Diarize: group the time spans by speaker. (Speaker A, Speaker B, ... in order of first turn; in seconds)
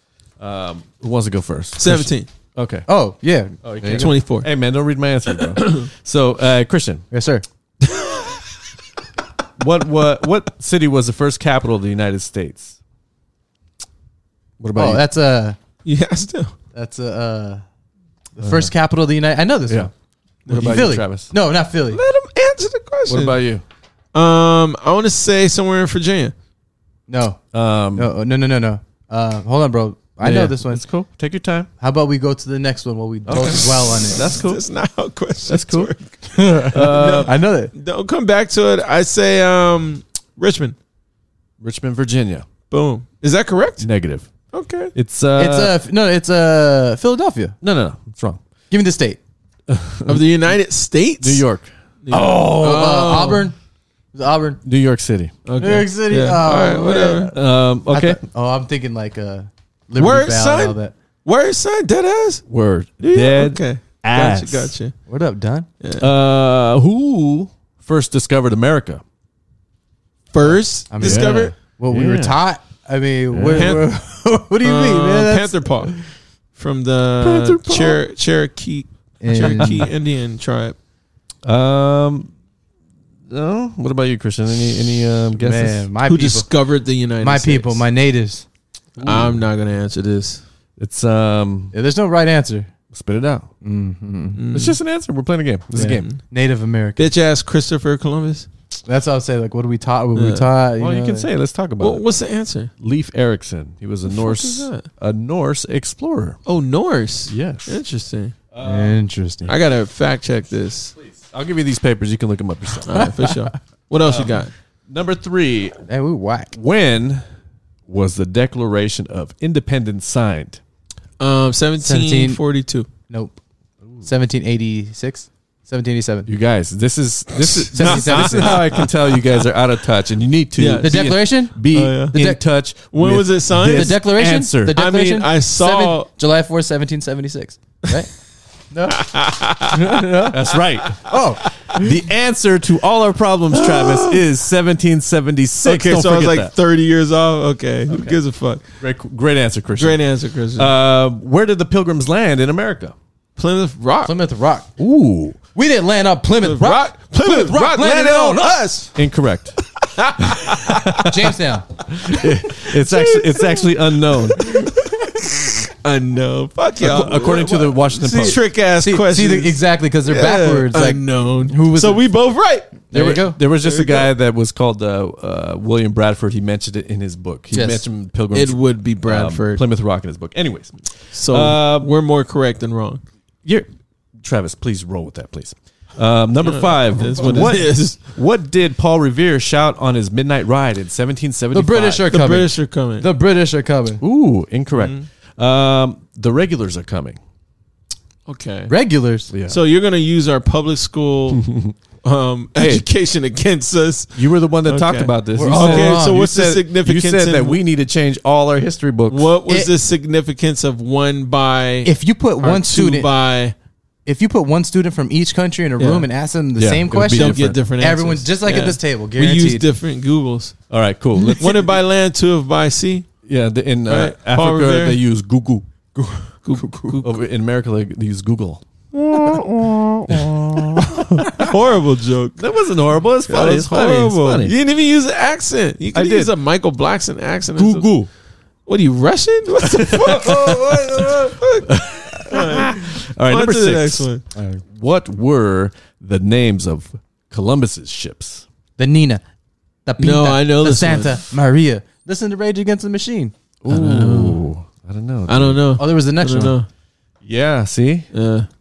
Speaker A: 0.4-2.9, 3.6-7.0, 9.6-12.8, 14.6-15.0, 18.4-18.7, 20.5-21.3, 23.1-23.6, 27.5-28.1, 30.2-31.7, 33.3-34.6, 35.5-35.9, 36.7-37.3, 41.6-42.5, 43.8-44.3, 44.9-45.8, 47.6-48.4, 49.7-50.2, 51.2-51.7, 54.6-55.4, 57.2-58.2, 62.5-64.7, 66.0-69.0, 71.0-72.4, 73.3-73.8, 77.2-78.0, 79.4-79.9, 81.4-82.3, 83.3-85.9, 89.0-89.4, 90.8-91.7, 92.9-93.5, 94.5-96.0, 100.8-102.1, 102.8-106.4, 107.3-107.8, 108.5-109.0, 111.0-113.1, 114.0-115.8, 116.5-117.2, 117.9-120.6, 126.3-134.8, 140.3-141.1, 141.7-146.5, 147.9-148.2, 148.8-150.0, 150.6-152.9, 154.8-155.4, 158.9-159.6, 160.2-161.3, 161.9-164.7, 166.8-168.4, 172.9-181.9, 184.2-192.2, 194.0-197.2, 199.3-199.6, 201.3-201.7, 202.6-202.9, 204.2-209.4, 216.6-217.6, 220.7-221.7, 223.2-231.6, 232.4-234.6, 235.9-236.3, 237.6-238.1, 239.6-244.1, 244.7-248.4, 253.7-255.7, 257.2-258.1
Speaker B: 1.8-2.3, 3.9-4.5, 5.4-5.9, 7.8-8.4, 15.8-16.6, 20.5-20.9, 21.9-23.4, 24.1-26.3, 34.0-40.8, 42.7-43.9, 44.5-44.9, 50.1-51.5, 52.0-53.5, 55.5-57.3, 60.0-62.5, 63.0-65.0, 65.8-66.1, 70.3-71.6, 73.5-73.9, 74.6-76.0, 76.5-80.8, 86.0-87.8, 89.0-90.4, 94.4-94.8, 95.8-96.2, 97.0-98.5, 100.2-100.5, 101.8-102.7, 104.1-104.9, 106.5-108.4, 109.5-111.0, 112.9-114.5, 121.2-122.9, 127.7-128.9, 130.6-132.2, 132.9-134.1, 134.7-136.1, 139.0-140.0, 143.5-144.2, 145.6-148.6, 149.8-150.7, 153.4-154.2, 156.4-158.9, 159.8-161.0, 162.6-163.7, 164.3-172.9, 173.6-174.1, 178.3-179.6, 181.1-183.0, 186.4-188.1, 192.1-193.1, 194.7-195.1, 198.3-198.7, 199.5-201.5, 202.0-207.6, 209.1-213.6, 215.8-216.1, 216.9-220.6, 221.3-223.1, 223.9-225.0, 226.4-227.1, 231.2-232.4, 233.3-237.9, 238.7-244.2, 250.0-251.2, 253.7-254.4, 255.3-256.7, 258.1-258.5
Speaker C: 2.9-4.1, 7.1-7.5, 14.7-15.6, 16.7-17.6, 18.4-19.9, 20.5-22.0, 27.1-27.4, 27.9-30.8, 31.8-34.3, 36.3-37.7, 45.4-47.6, 48.7-49.2, 52.1-53.6, 54.1-54.6, 55.6-57.3, 57.9-61.0, 65.1-65.7, 70.9-75.8, 79.2-79.8, 85.4-86.5, 87.2-88.5, 91.7-92.7, 93.6-94.4, 95.7-97.1, 98.9-101.3, 108.6-109.5, 113.0-113.6, 115.9-116.5, 121.8-122.4, 123.1-123.4, 124.0-126.3, 127.7-128.7, 130.8-132.4, 133.7-138.1, 138.7-139.1, 139.6-141.8, 154.1-154.7, 155.6-158.9, 161.0-161.7, 168.8-172.1, 172.9-173.4, 177.5-177.8, 187.2-187.6, 191.5-194.0, 198.7-199.3, 205.3-206.2, 211.8-213.1, 214.1-219.7, 244.3-244.6, 248.8-249.2, 249.9-254.0, 255.8-256.6